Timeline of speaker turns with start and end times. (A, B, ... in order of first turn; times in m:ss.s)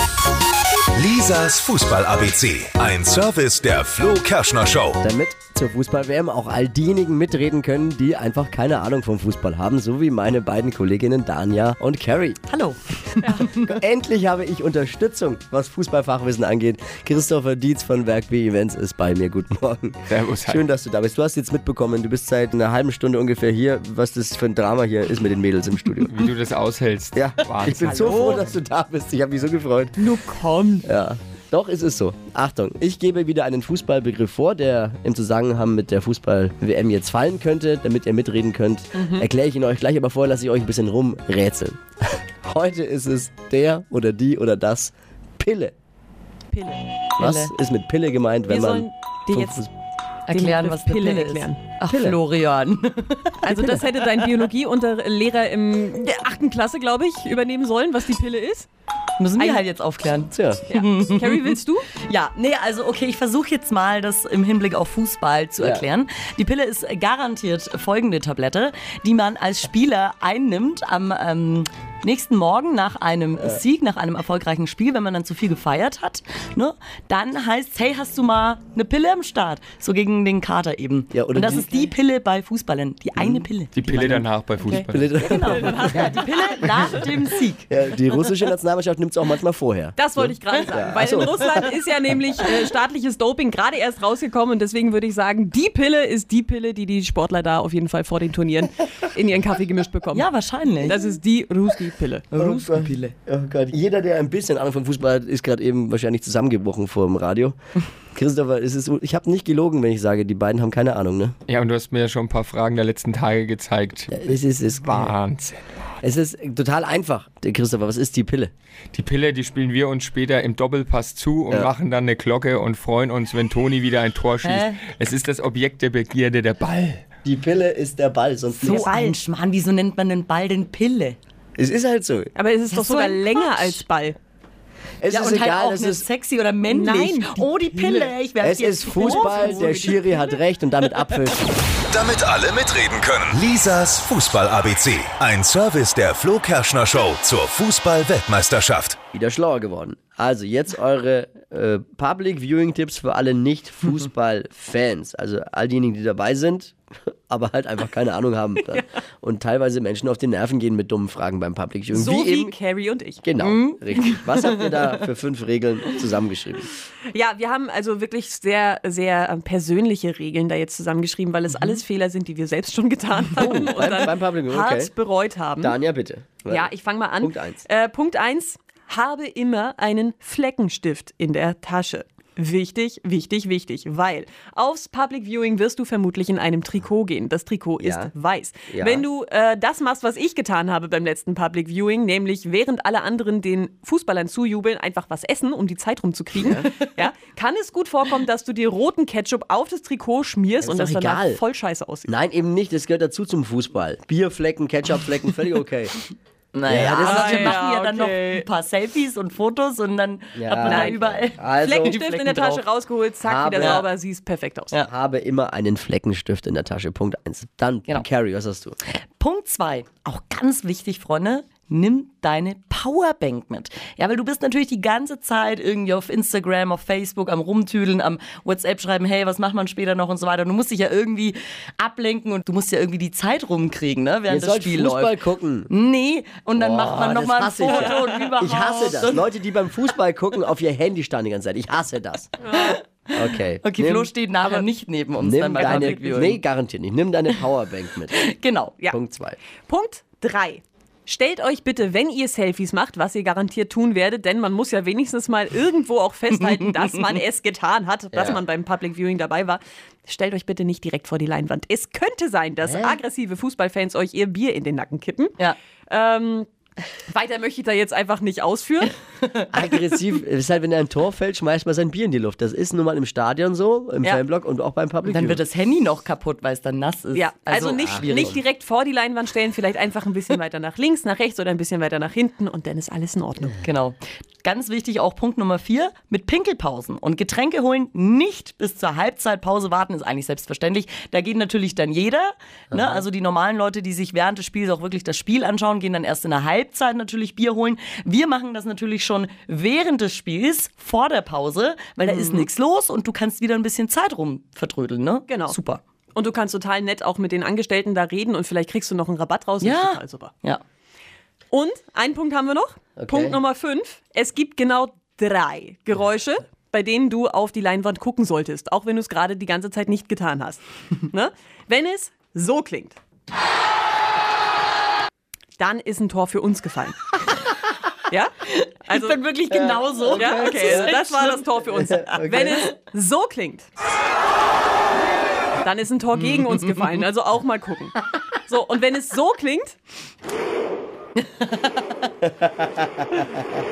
0:00.9-0:05.0 A
0:05.0-0:12.4 B
0:12.5-0:13.8 C
0:13.2-0:13.5 D
0:13.6-0:26.1 B
0:20.1-0:20.6 E
0:26.0-0:28.4 E
0:27.1-0:30.0 B
0:27.8-0:28.4 D
0:30.0-0:30.9 D
0:30.8-0:45.7 B
0:38.9-0:39.3 D
0:46.5-0:46.8 D
0:47.2-0:47.5 C
0:47.2-0:49.7 B
0:48.5-0:49.6 D
0:50.3-0:54.3 C
0:50.3-0:51.6 D
0:51.9-0:52.2 B
0:53.4-0:58.7 D
0:59.2-1:27.7 C
0:59.4-0:59.6 D
1:00.3-1:00.6 B
1:00.7-1:01.9 D
1:05.6-1:05.8 B
1:21.1-1:21.7 B
1:21.4-1:21.8 D
1:23.2-1:23.4 B
1:23.7-1:25.1 E
1:24.9-1:26.0 B
1:25.4-1:27.0 D
1:27.7-1:31.7 B
1:30.0-1:40.3 D
1:40.1-1:41.2 C
1:40.8-1:42.4 D
1:42.3-1:43.1 C
1:42.3-1:47.6 B
1:48.1-1:51.4 B
1:51.5-1:55.6 E
1:54.1-1:55.1 B
1:56.0-1:58.5 B
1:58.9-2:07.0 E
2:04.4-2:04.8 C
2:07.2-2:08.9 B
2:08.6-2:11.2 C
2:08.7-2:09.1 D
2:11.6-2:12.3 B
2:12.4-2:14.2 D
2:12.7-2:13.8 C
2:15.0-2:16.0 B
2:15.1-2:20.0 C
2:16.7-2:18.1 D
2:18.4-2:21.6 B
2:18.8-2:20.4 D
2:21.9-2:29.0 A
2:29.1-2:36.8 B
2:37.3-2:42.5 B
2:41.9-2:43.2 D
2:43.2-2:46.7 B
2:43.4-2:45.0 C
2:47.1-2:55.8 D
2:51.5-2:51.8 C
2:53.3-2:54.9 B
2:55.6-2:56.7 B
2:56.5-3:22.1 D
2:57.2-2:57.6 B
3:07.8-3:08.1 B
3:08.7-3:09.0 B
3:16.4-3:16.7 B
3:20.6-3:21.4 B
3:22.0-3:26.0 B
3:26.5-3:32.6 C
3:26.7-3:27.6 B
3:26.8-3:28.4 D
3:30.4-3:31.9 B
3:30.6-3:31.0 D
3:31.6-3:34.7 D
3:33.2-3:33.8 B
3:33.6-3:33.8 C
3:34.9-3:38.8 B
3:38.9-3:59.2 C
3:54.3-3:55.7 B
3:56.6-4:02.3 B
3:57.7-3:58.4 D
4:02.4-4:02.8 D
4:02.5-4:06.4 C
4:03.1-4:04.1 B
4:05.2-4:08.3 B
4:05.6-4:06.2 D
4:08.1-4:08.8 C
4:08.9-4:09.4 B
4:09.7-4:25.3 D
4:16.3-4:17.0 C
4:18.1-4:18.4 B
4:22.6-4:23.0 B
4:25.9-4:26.5 D
4:27.1-4:28.9 D
4:29.2-4:29.7 C
4:29.5-4:35.4 B
4:35.0-4:38.4 C
4:37.1-4:43.6 D
4:37.7-4:38.3 B
4:43.6-5:05.8 C
4:52.7-4:53.0 B
5:02.0-5:02.5 D
5:05.3-5:05.6 D
5:06.1-5:10.3 D
5:09.6-5:10.6 C
5:11.5-5:23.0 D
5:13.0-5:13.4 B
5:25.6-5:27.4 D
5:28.1-5:29.2 D
5:28.5-5:31.5 C
5:29.5-5:30.9 B
5:30.1-5:33.7 D
5:31.8-5:32.6 B
5:35.6-5:39.8 D
5:36.1-5:37.0 C
5:41.2-5:42.1 C
5:42.2-5:43.4 B